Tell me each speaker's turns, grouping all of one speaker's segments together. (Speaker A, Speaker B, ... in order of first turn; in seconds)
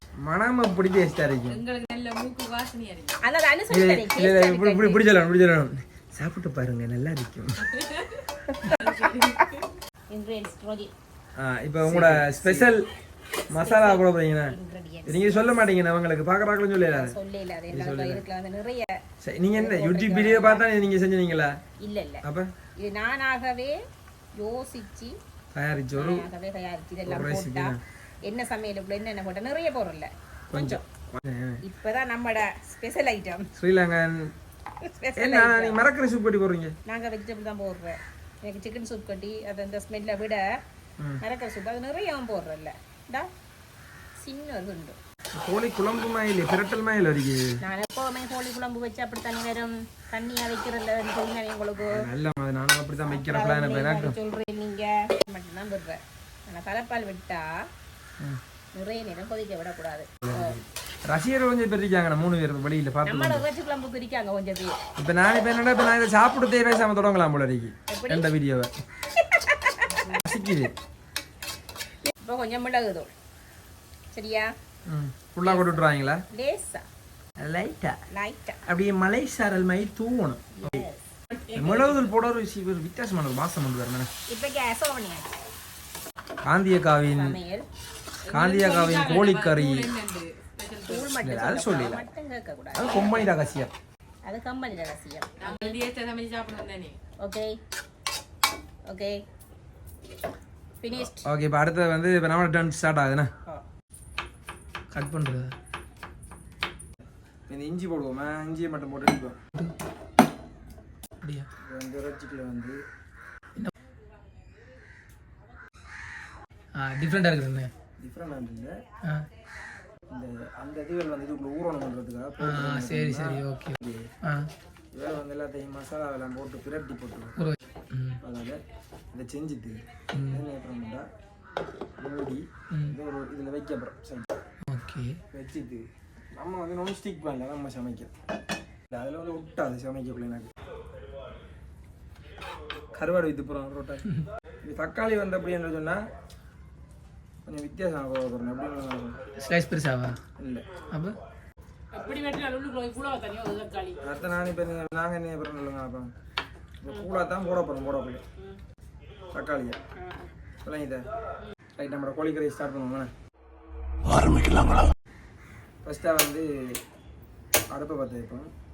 Speaker A: 0.2-1.6, 3.7-7.7, 11.4-12.8, 13.5-14.5, 15.1-17.1, 17.7-18.2, 19.2-21.5, 22.2-22.5, 25.5-26.2, 27.1-27.8, 30.5-31.6, 33.6-34.3, 35.2-36.8, 45.4-47.5, 51.9-54.1, 60.2-63.4, 65.0-68.7, 70.0-70.7, 74.9-76.2, 77.4-78.0, 78.7-80.8, 81.5-84.1, 86.5-87.4, 88.3-89.9, 91.2-92.0, 92.7-93.7, 101.0-103.3, 107.5-109.3, 111.6-112.8, 118.0-118.7, 120.1-124.1, 124.9-127.3, 128.2-128.6, 129.1-131.1, 132.0-134.3, 135.3-138.1, 138.9-140.5, 142.9-144.0, 144.6-146.0, 147.4-149.1, 150.4-150.6, 154.0-156.1, 156.8-158.2, 159.3-159.8, 160.6-161.0, 161.8-163.1, 165.8-166.8, 167.7-168.5
Speaker B: 1.5-3.2, 7.8-9.6, 81.4-82.1, 88.3-91.2, 95.4-97.0
Speaker C: 3.2-5.0, 8.5-9.5, 10.1-10.9, 13.5-15.7, 16.9-19.0, 19.5-20.6, 21.8-22.2, 22.8-23.8, 24.4-25.1, 25.9-30.8, 31.6-33.5, 34.8-35.8, 36.9-40.4, 41.2-43.3, 44.2-45.0, 47.6-52.0, 53.0-57.5, 58.7-60.6, 63.0-64.8, 67.9-68.3, 69.2-70.1, 72.1-73.1, 74.1-74.5, 75.5-75.7, 76.3-76.8, 78.1-78.6, 80.5-81.0, 84.3-85.4, 87.1-87.7, 90.8-93.2, 94.2-95.8, 97.2-97.5, 98.9-99.2, 100.8-101.3, 151.9-154.0
Speaker D: 11.8-12.7, 104.9-105.5, 116.8-117.7, 122.4-124.5, 127.4-128.2, 130.1-130.4, 134.7-135.2, 149.4-150.2, 150.9-151.2